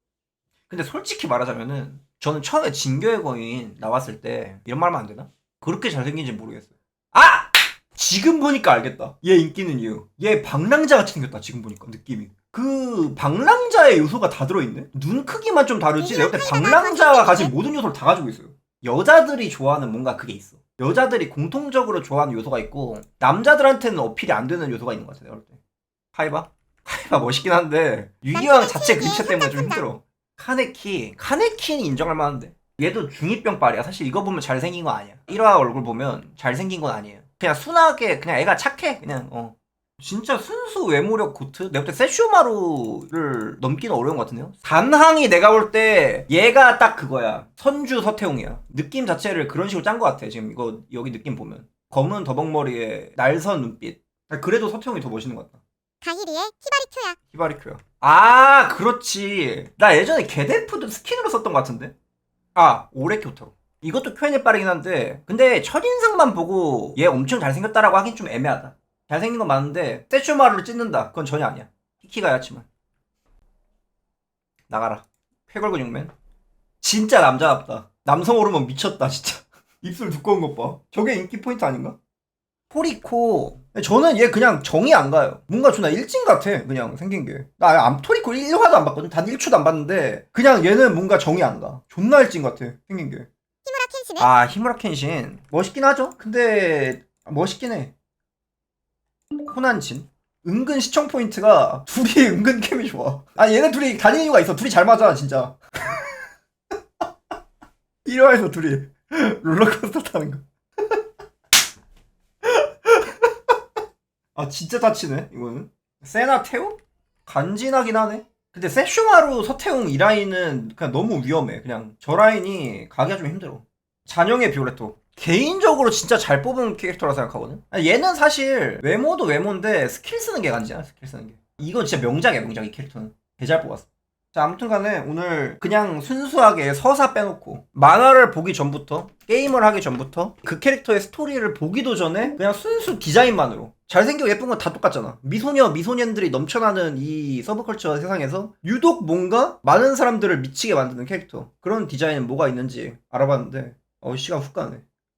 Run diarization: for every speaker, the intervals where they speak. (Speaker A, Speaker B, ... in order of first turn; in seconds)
Speaker A: 0.7-25.6, 26.1-55.6, 57.3-61.9, 62.5-72.7, 74.7-76.1, 76.8-82.0, 82.7-93.3, 94.2-97.9, 99.5-106.0, 108.0-110.4, 112.4-113.3, 114.3-154.8
Speaker B: 16.0-17.5, 28.3-29.8, 56.0-57.2, 93.6-94.3